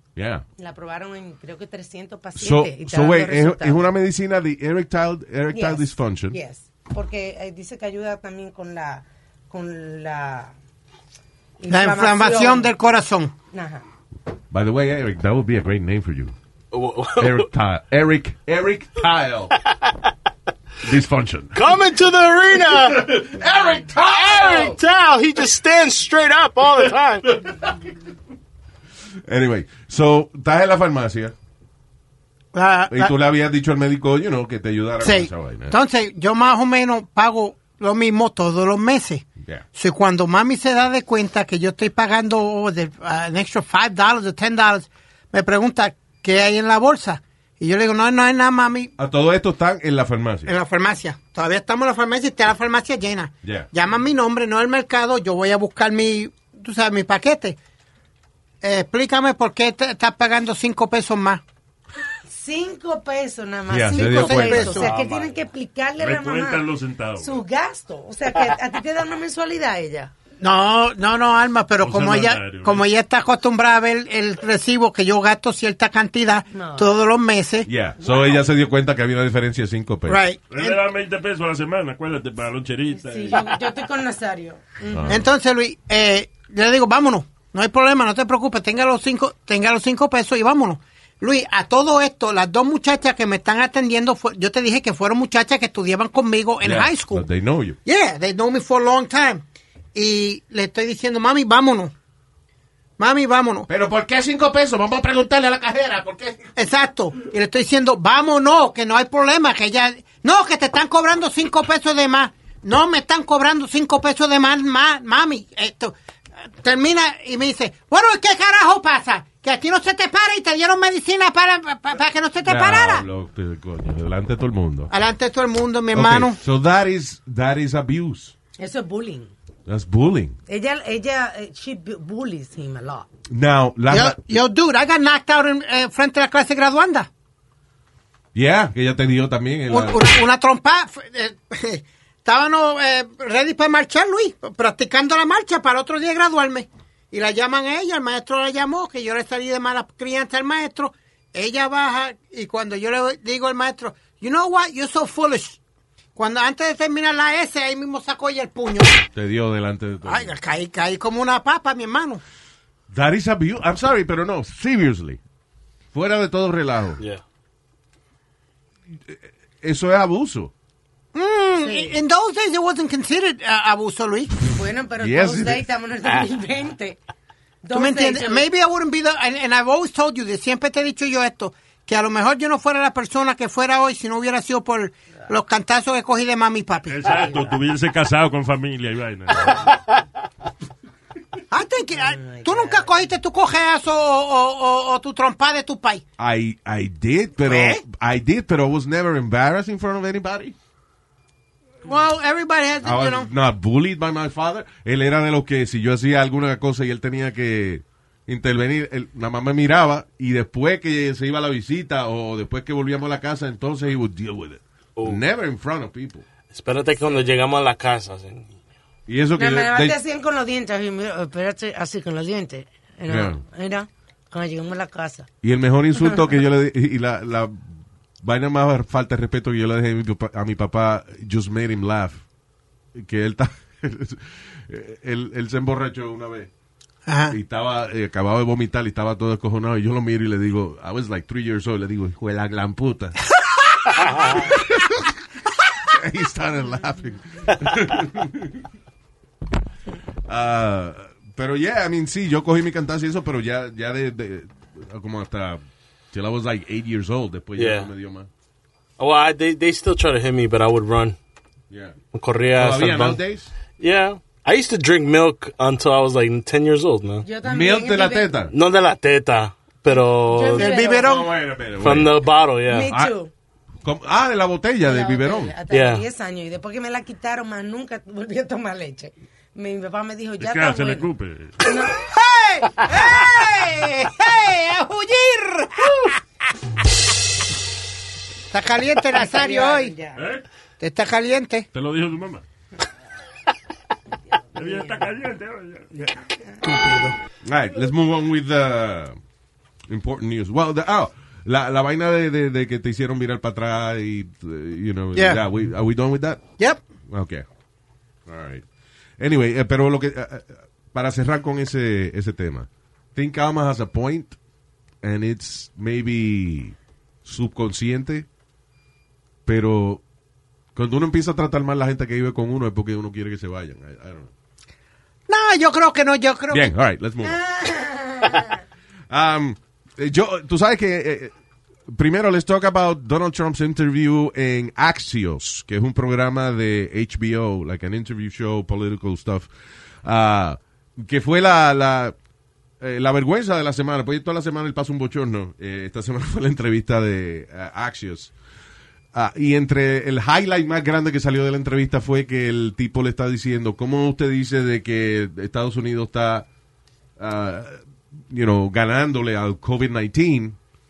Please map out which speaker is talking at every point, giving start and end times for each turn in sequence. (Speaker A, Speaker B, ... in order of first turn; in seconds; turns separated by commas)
Speaker A: 0.2-0.4, Speaker B: 0.6-3.9, Speaker A: 2.4-6.4, Speaker B: 5.5-10.5, Speaker B: 11.6-12.7, Speaker C: 11.7-13.3, Speaker B: 13.5-13.8, Speaker A: 14.5-16.4, Speaker D: 16.7-17.5, Speaker A: 17.2-19.6, Speaker A: 20.8-21.6, Speaker D: 21.6-23.1, Speaker A: 22.7-24.8, Speaker D: 24.1-27.4, Speaker A: 27.4-27.7, Speaker A: 29.2-31.3, Speaker C: 32.5-33.1, Speaker A: 32.9-35.8, Speaker C: 35.0-48.9, Speaker A: 49.0-50.5, Speaker C: 50.5-57.6, Speaker A: 53.4-53.7, Speaker C: 58.6-61.4, Speaker B: 62.3-66.7, Speaker A: 63.7-64.9, Speaker C: 63.9-64.9, Speaker E: 64.9-65.3, Speaker E: 66.0-67.4, Speaker B: 67.2-70.1, Speaker C: 70.4-77.7, Speaker E: 71.8-72.9, Speaker B: 76.5-76.9, Speaker A: 77.7-80.2, Speaker B: 78.0-78.3, Speaker C: 80.1-80.8, Speaker E: 80.5-83.5, Speaker B: 82.9-85.2, Speaker A: 84.9-85.3, Speaker C: 85.1-97.3, Speaker A: 96.6-97.8, Speaker C: 97.8-99.4, Speaker C: 100.0-101.9, Speaker C: 103.0-103.7, Speaker A: 103.7-106.5, Speaker C: 106.6-116.0, Speaker C: 116.6-123.1, Speaker A: 122.5-124.9, Speaker C: 124.9-126.4, Speaker A: 125.9-128.3, Speaker B: 128.6-129.3, Speaker A: 129.7-130.4, Speaker B: 130.5-133.1, Speaker A: 133.3-134.2, Speaker C: 133.9-137.1, Speaker A: 138.3-140.1, Speaker C: 139.7-155.6, Speaker C: 156.2-159.0, Speaker A: 159.1-160.3, Speaker C: 160.1-162.2, Speaker A: 162.9-165.2, Speaker A: 165.9-167.0, Speaker A: 169.1-170.5, Speaker C: 171.1-174.4, Speaker B: 171.6-172.0, Speaker B: 174.5-177.0, Speaker A: 175.0-175.7, Speaker B: 177.6-178.4, Speaker C: 177.7-187.2, Speaker E: 186.9-189.7, Speaker C: 191.5-196.0, Speaker B: 192.0-193.1, Speaker A: 196.2-200.6, Speaker C: 197.4-197.8, Speaker C: 201.8-203.3, Speaker A: 202.8-216.2, Speaker D: 215.0-215.2, Speaker D: 216.5-218.5, Speaker A: 219.1-220.0, Speaker B: 219.4-225.3, Speaker A: 223.1-223.4, Speaker A: 225.4-232.2, Speaker A: 232.9-236.5, Speaker C: 237.1-237.4, Speaker A: 237.3-243.2, Speaker A: 243.9-245.1, Speaker A: 245.9-248.7, Speaker A: 250.3-258.3, Speaker D: 257.6-257.9, Speaker D: 259.0-261.2, Speaker A: 261.7-262.0, Speaker D: 262.1-263.2, Speaker A: 262.6-263.5, Speaker D: 263.8-267.3, Speaker B: 267.2-268.3, Speaker A: 267.4-268.5, Speaker D: 268.5-270.8, Speaker B: 270.3-271.2, Speaker C: 270.6-271.3, Speaker A: 270.8-272.2, Speaker D: 271.8-272.9, Speaker B: 272.7-273.3, Speaker A: 272.9-273.1, Speaker A: 273.8-275.6, Speaker B: 274.9-281.1, Speaker D: 275.7-276.1, Speaker E: 280.4-281.6, Speaker B: 281.6-281.9, Speaker C: 281.9-286.2, Speaker C: 288.5-290.0, Speaker B: 289.1-290.2, Speaker E: 290.1-290.4, Speaker C: 290.8-291.7, Speaker E: 291.7-292.4, Speaker B: 294.5-295.0, Speaker E: 294.6-295.9, Speaker C: 296.6-297.2, Speaker A: 297.4-299.2, Speaker A: 299.9-306.4, Speaker C: 305.1-305.4, Speaker A: 307.1-307.5, Speaker A: 308.3-308.7, Speaker A: 309.2-314.4, Speaker A: 315.0-318.3, Speaker A: 319.5-320.0, Speaker A: 320.8-324.3, Speaker C: 325.3-326.7, Speaker A: 326.5-327.4, Speaker B: 327.2-328.6, Speaker A: 329.1-331.3, Speaker A: 331.9-339.5, Speaker A: 340.0-342.2, Speaker A: 342.8-348.3, Speaker A: 349.1-356.5, Speaker A: 357.2-360.6